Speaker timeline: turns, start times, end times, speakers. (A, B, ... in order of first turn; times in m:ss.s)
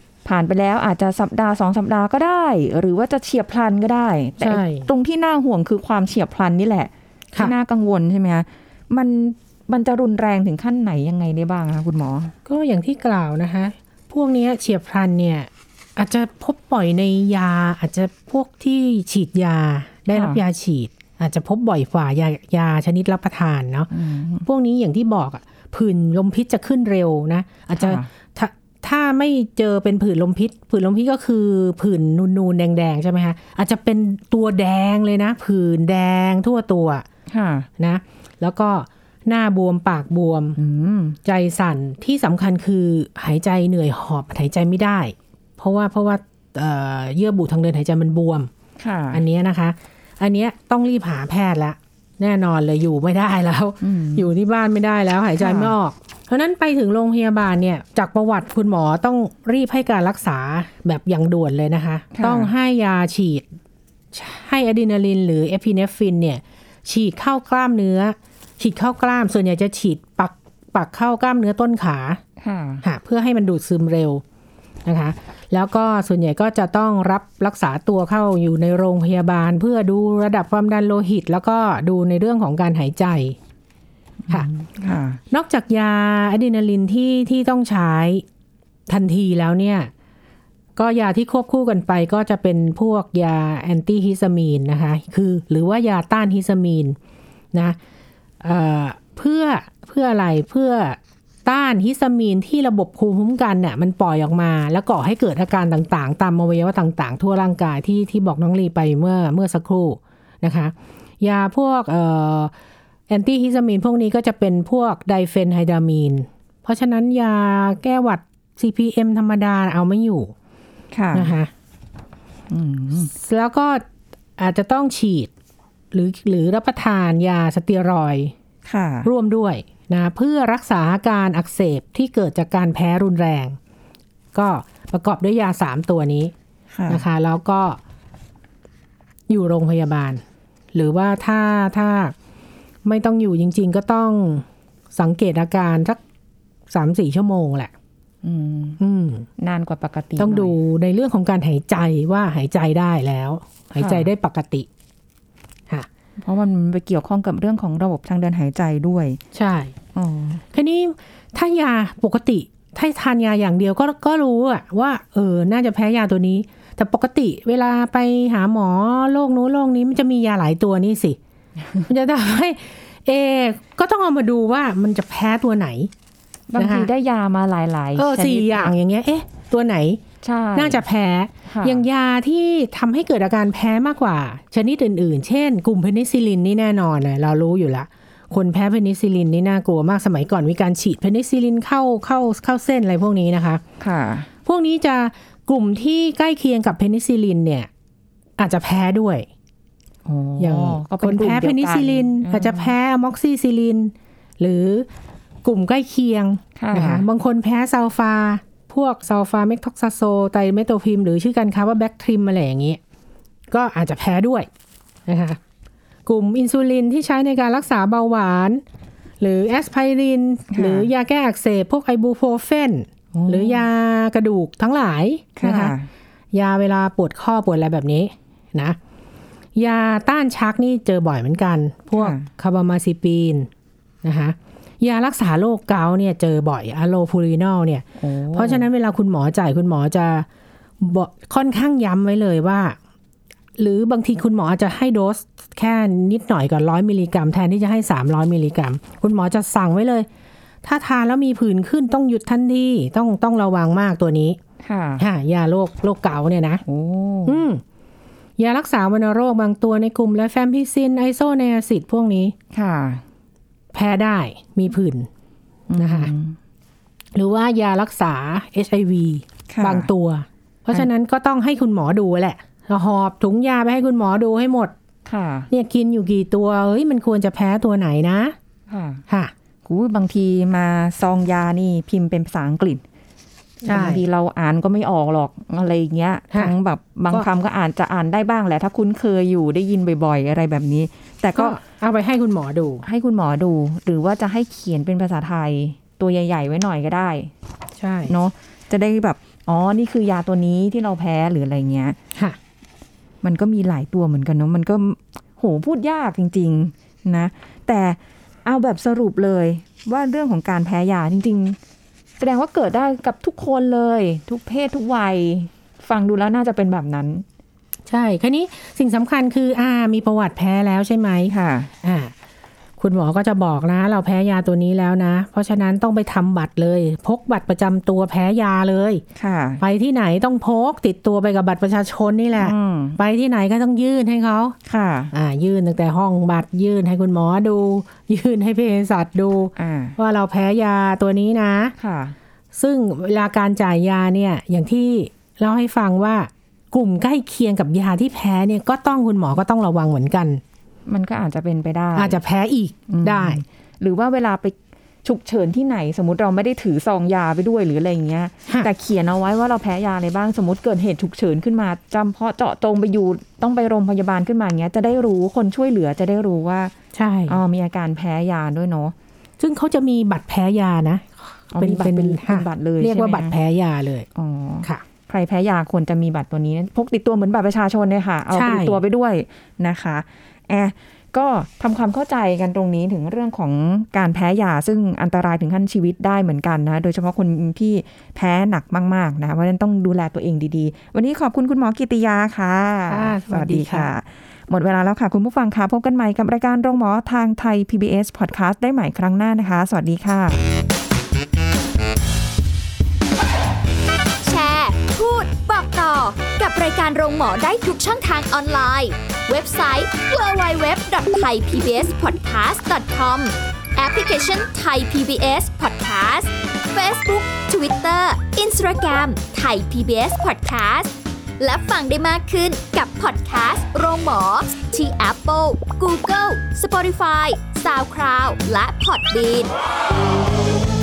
0:00.2-0:12.3 A
0:04.4-0:04.9 B
0:12.4-0:23.9 B
0:20.1-0:20.4 A
0:23.9-0:24.4 A
0:24.4-0:37.0 B
0:27.8-0:28.1 A
0:37.3-0:37.7 A
0:37.8-0:40.6 B
0:40.6-0:41.2 A
0:41.2-0:48.5 B
0:48.8-0:49.2 A
0:49.1-1:03.5 B
0:53.8-0:54.3 A
0:55.4-0:55.7 A
1:02.1-1:02.5 A
1:04.1-1:12.2 B
1:12.4-1:12.8 A
1:12.8-1:14.2 B
1:14.8-1:23.4 B
1:24.3-1:25.2 A
1:25.3-1:28.2 B
1:28.9-1:29.9 B
1:30.8-1:37.0 B
1:38.4-1:52.5 B
1:53.1-2:00.3 B
2:00.9-2:01.3 A
2:01.1-2:01.5 B
2:02.5-2:03.1 A
2:03.1-2:03.8 B
2:04.4-2:05.3 B
2:05.9-2:08.3 B
2:08.6-2:09.1 A
2:09.0-2:13.6 B
2:14.3-2:16.3 B
2:16.7-2:17.0 A
2:16.9-2:17.8 B
2:19.3-2:20.2 B
2:20.7-2:22.1 B
2:22.8-2:26.0 B
2:26.7-2:27.7 B
2:28.2-2:28.8 A
2:28.8-2:29.2 B
2:29.4-2:30.6 A
2:30.2-2:34.7 B
2:33.8-2:34.1 A
2:36.2-2:39.2 A
2:39.3-2:39.7 B
2:39.9-2:40.4 A
2:40.5-2:51.2 B
2:51.9-2:55.9 B
2:56.5-2:58.7 A
2:56.6-2:56.9 B
2:58.0-3:00.0 B
3:00.2-3:00.8 A
3:00.6-3:13.6 B
3:01.4-3:01.8 A
3:13.8-3:14.3 A
3:14.4-3:17.7 B
3:18.4-3:19.3 B
3:20.0-3:22.7 A
3:20.4-3:24.9 B
3:25.4-3:32.8 B
3:26.6-3:27.0 A
3:33.5-3:34.5 B
3:35.1-3:35.4 B
3:36.0-3:38.6 B
3:39.2-3:45.7 B
3:40.5-3:40.9 A
3:43.1-3:43.6 A
3:45.4-3:45.9 A
3:46.3-3:48.8 B
3:49.5-3:53.5 B
3:51.9-3:52.3 A
3:54.0-4:00.3 B
3:58.0-3:58.7 A
4:00.8-4:02.8 B
4:03.6-4:10.1 B
4:10.6-4:14.4 B
4:14.6-4:15.0 A
4:15.0-4:16.6 B
4:16.7-4:17.4 A
4:17.2-4:17.6 B
4:18.4-4:22.3 B
4:22.5-4:23.0 A
4:23.7-4:25.1 B
4:25.7-4:26.4 A
4:25.8-4:26.1 B
4:27.1-4:34.7 B
4:29.5-4:29.9 A
4:35.0-4:35.5 A
4:35.5-4:38.4 B
4:38.7-4:39.0 A
4:39.6-4:42.8 A
4:43.6-4:51.6 A
4:43.7-4:44.0 B
4:51.3-4:52.8 B
4:52.8-4:57.3 A
4:57.8-4:58.1 B
4:58.1-5:02.0 A
5:03.2-5:11.6 A
5:12.2-5:17.2 A
5:17.9-5:21.3 B
5:21.3-5:21.7 A
5:21.8-5:22.1 B
5:22.8-5:29.0 B
5:29.2-5:29.6 A
5:29.6-5:34.5 B
5:32.4-5:33.0 A
5:34.7-5:35.1 A
5:35.1-5:41.7 B
5:39.6-5:40.0 A
5:41.8-5:42.2 A
5:42.5-5:50.4 B
5:50.9-5:52.2 A
5:52.0-5:53.4 B
5:52.9-6:06.7 A
6:06.9-6:07.4 B
6:07.3-6:08.9 A
6:09.4-6:14.0 B
6:11.5-6:13.3 A
6:14.1-6:40.4 A
6:18.3-6:18.8 B
6:32.9-6:33.9 B
6:44.2-7:09.5 C